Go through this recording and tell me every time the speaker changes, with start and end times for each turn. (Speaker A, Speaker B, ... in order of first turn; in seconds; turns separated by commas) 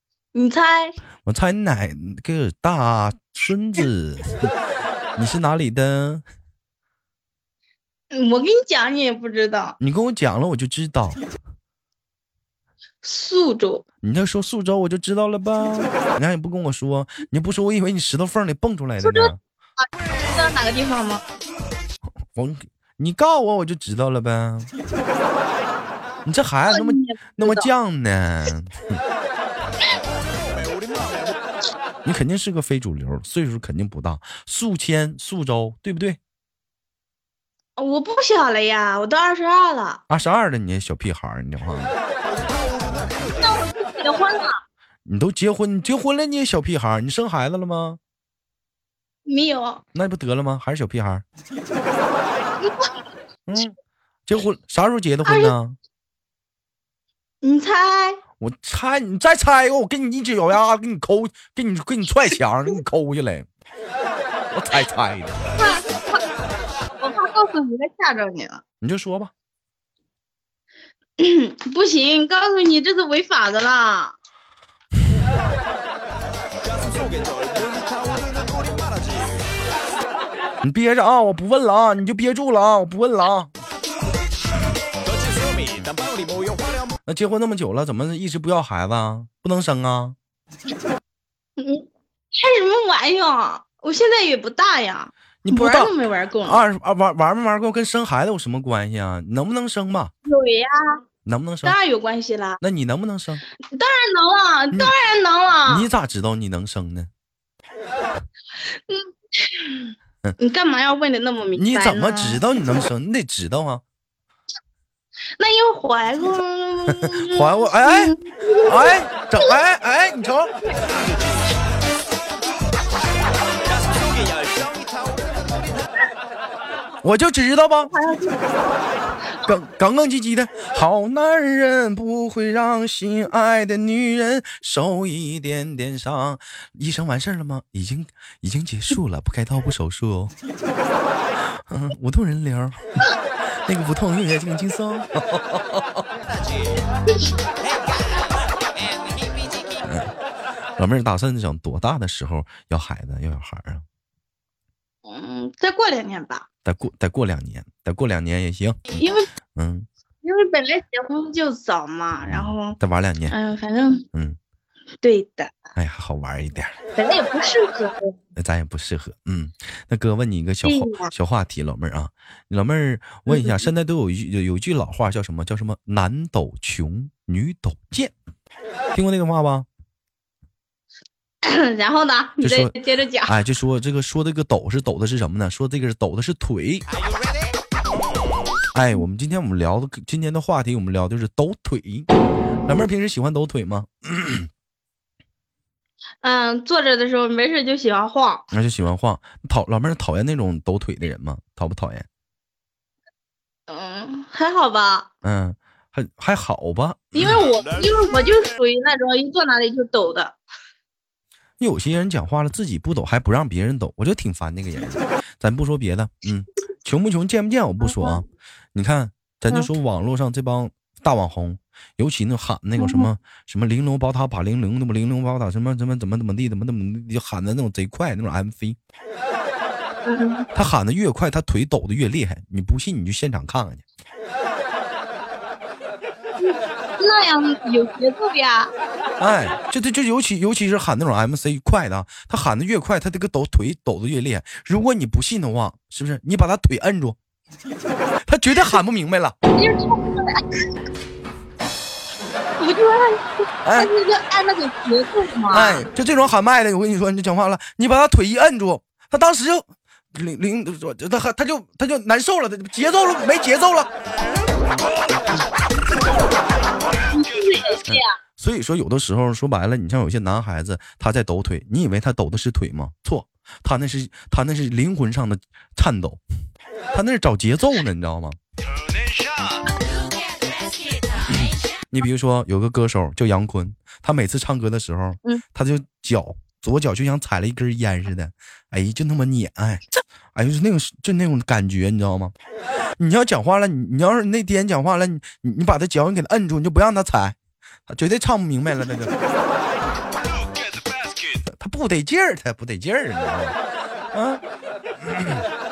Speaker A: 0.3-1.0, Speaker B: 1.2-4.5, Speaker B: 5.2-6.2, Speaker A: 8.1-9.8, Speaker B: 9.8-11.2, Speaker A: 13.0-13.8, Speaker B: 14.0-19.4, Speaker A: 19.0-21.2, Speaker B: 22.3-24.7, Speaker B: 26.2-29.0, Speaker A: 26.7-27.7, Speaker B: 32.0-36.2, Speaker A: 37.8-40.0, Speaker B: 40.1-41.9, Speaker A: 43.3-44.6, Speaker B: 45.0-48.0, Speaker A: 49.2-49.8, Speaker B: 49.9-51.2, Speaker A: 52.6-52.9, Speaker B: 53.5-53.8, Speaker B: 54.3-55.8, Speaker A: 55.2-55.5, Speaker A: 57.4-58.2, Speaker B: 58.4-63.5, Speaker B: 64.5-65.4, Speaker A: 65.5-66.2, Speaker A: 67.0-68.6, Speaker B: 68.8-69.3, Speaker A: 71.2-74.1, Speaker C: 76.9-78.9, Speaker B: 80.6-83.5, Speaker C: 86.1-86.7, Speaker B: 87.0-90.2, Speaker A: 91.6-96.6, Speaker B: 95.4-95.9, Speaker B: 96.4-100.1, Speaker A: 100.2-101.0, Speaker B: 101.2-101.8, Speaker A: 101.6-102.6, Speaker B: 102.6-103.4, Speaker A: 103.7-105.9, Speaker B: 105.7-107.1, Speaker A: 108.8-112.4, Speaker B: 111.5-113.8, Speaker A: 115.4-119.5, Speaker B: 116.9-118.1, Speaker B: 118.7-120.5, Speaker C: 124.2-124.8, Speaker B: 127.0-127.9, Speaker A: 127.8-128.7, Speaker B: 129.4-140.3, Speaker B: 141.7-142.8, Speaker B: 143.6-146.0, Speaker B: 149.8-150.1, Speaker B: 150.8-153.8, Speaker A: 155.0-156.4, Speaker B: 156.6-158.9, Speaker A: 158.9-159.3, Speaker B: 159.5-159.9, Speaker A: 160.2-162.8, Speaker B: 162.2-163.3, Speaker A: 163.3-164.0, Speaker A: 165.0-165.6, Speaker B: 165.8-166.7, Speaker A: 166.9-168.2, Speaker B: 168.3-178.1, Speaker A: 170.6-171.1, Speaker A: 173.3-173.7, Speaker B: 178.9-179.7, Speaker A: 181.4-183.4, Speaker B: 182.4-182.7, Speaker B: 183.2-186.9, Speaker B: 188.7-192.1, Speaker B: 192.7-194.5, Speaker A: 196.2-198.5, Speaker B: 198.5-202.1, Speaker A: 203.7-205.1, Speaker B: 205.2-207.4, Speaker A: 207.1-210.4, Speaker B: 211.6-228.8, Speaker A: 217.8-218.2, Speaker A: 222.8-223.1, Speaker A: 230.0-230.4, Speaker B: 230.5-233.8, Speaker A: 236.4-238.7, Speaker B: 239.2-247.2, Speaker B: 248.3-249.3, Speaker A: 249.4-250.7, Speaker A: 252.6-255.8, Speaker B: 253.6-253.9, Speaker B: 255.5-263.9, Speaker A: 267.1-268.2, Speaker B: 267.9-276.2, Speaker B: 276.9-278.4, Speaker B: 281.9-292.3, Speaker B: 293.0-297.4, Speaker B: 297.9-299.1, Speaker B: 301.4-303.6, Speaker B: 304.1-304.4, Speaker B: 305.0-305.4